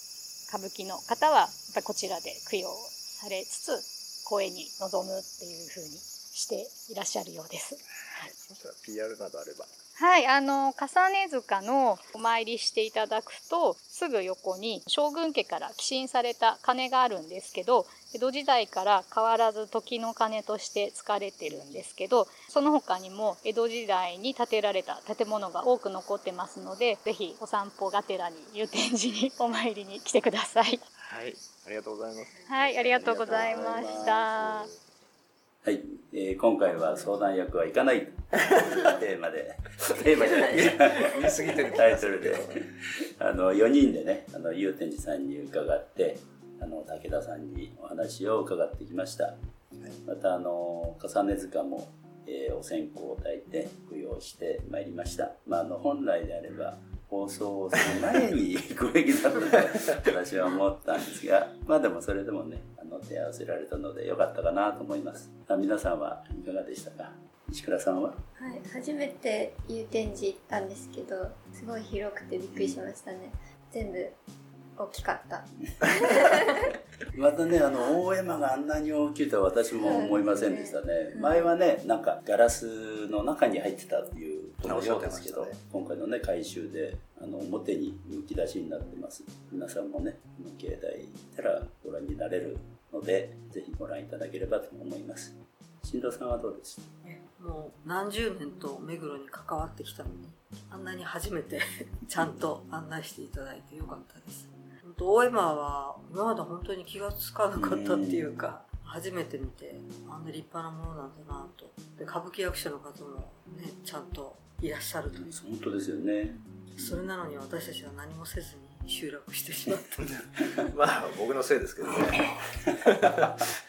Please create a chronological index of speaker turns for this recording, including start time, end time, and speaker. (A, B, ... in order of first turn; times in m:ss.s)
0:00.5-0:08.3 A
0:08.2-0:09.7 B
0:10.0-0:30.8 A
0:31.0-0:34.8 B
0:32.4-0:34.7 A
0:32.9-0:34.3 C
0:35.6-0:49.4 C
0:40.4-0:42.6 B
0:50.0-1:08.2 C
1:08.4-1:14.2 D
1:12.5-1:12.8 C
1:14.8-1:16.7 D
1:17.1-1:36.9 C
1:19.7-1:21.5 D
1:24.6-1:25.6 B
1:37.0-1:55.4 E
1:47.5-1:48.3 C
1:55.1-1:57.0 C
1:56.7-2:00.2 E
2:00.7-2:03.3 B
2:01.9-2:02.4 C